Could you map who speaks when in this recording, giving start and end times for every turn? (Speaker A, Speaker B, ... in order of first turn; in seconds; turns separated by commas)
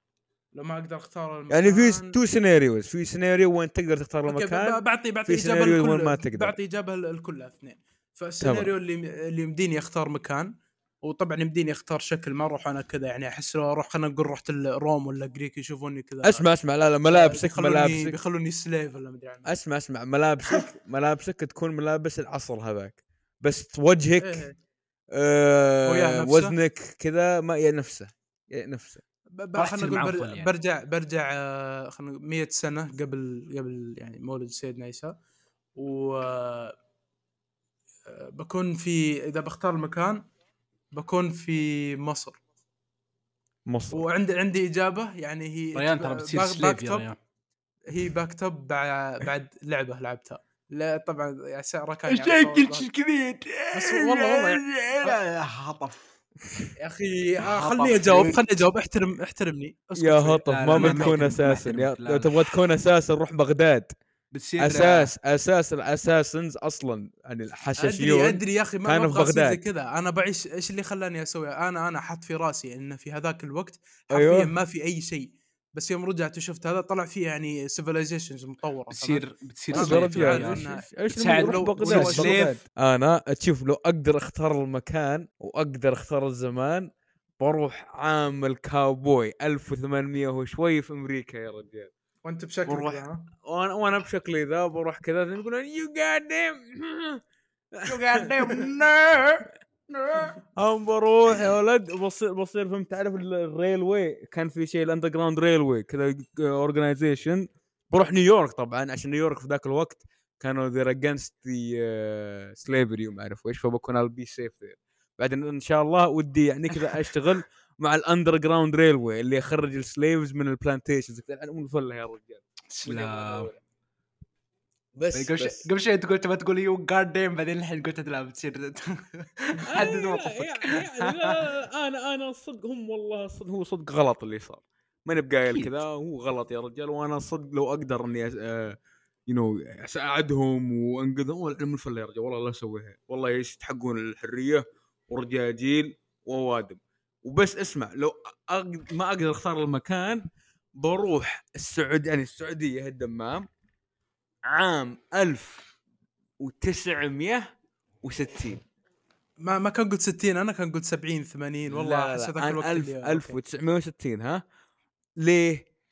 Speaker A: 0.5-2.2, Speaker B: 1.5-6.6, Speaker A: 4.3-10.5, Speaker B: 8.4-8.7, Speaker A: 11.0-16.4, Speaker B: 16.2-18.2, Speaker A: 17.0-19.5, Speaker B: 19.4-24.4, Speaker A: 24.2-24.6, Speaker B: 25.1-29.0, Speaker A: 25.9-26.6, Speaker A: 29.3-35.2, Speaker C: 29.6-30.5, Speaker A: 35.8-36.8, Speaker A: 38.1-40.2, Speaker A: 40.9-42.4, Speaker B: 43.7-44.0, Speaker A: 43.9-47.0, Speaker C: 45.8-47.2, Speaker A: 47.9-52.9, Speaker C: 52.1-56.1, Speaker A: 53.7-55.2, Speaker A: 56.8-61.2, Speaker B: 57.5-58.4, Speaker B: 60.0-63.9, Speaker C: 60.4-62.5, Speaker C: 64.3-65.1, Speaker B: 64.6-69.6, Speaker A: 67.8-82.6, Speaker B: 74.1-74.5, Speaker C: 78.9-82.6, Speaker B: 79.7-91.9, Speaker A: 92.2-93.2, Speaker B: 92.7-97.2, Speaker B: 97.7-99.5, Speaker A: 98.1-98.7, Speaker B: 100.1-123.6, Speaker C: 122.7-123.5, Speaker B: 125.0-125.7, Speaker C: 125.1-131.3, Speaker B: 129.7-150.3, Speaker C: 135.5-135.8, Speaker B: 150.8-153.5, Speaker B: 154.4-155.6, Speaker B: 156.4-157.5, Speaker B: 158.0-158.6, Speaker A: 159.4-163.4, Speaker B: 161.7-164.4, Speaker B: 165.2-165.7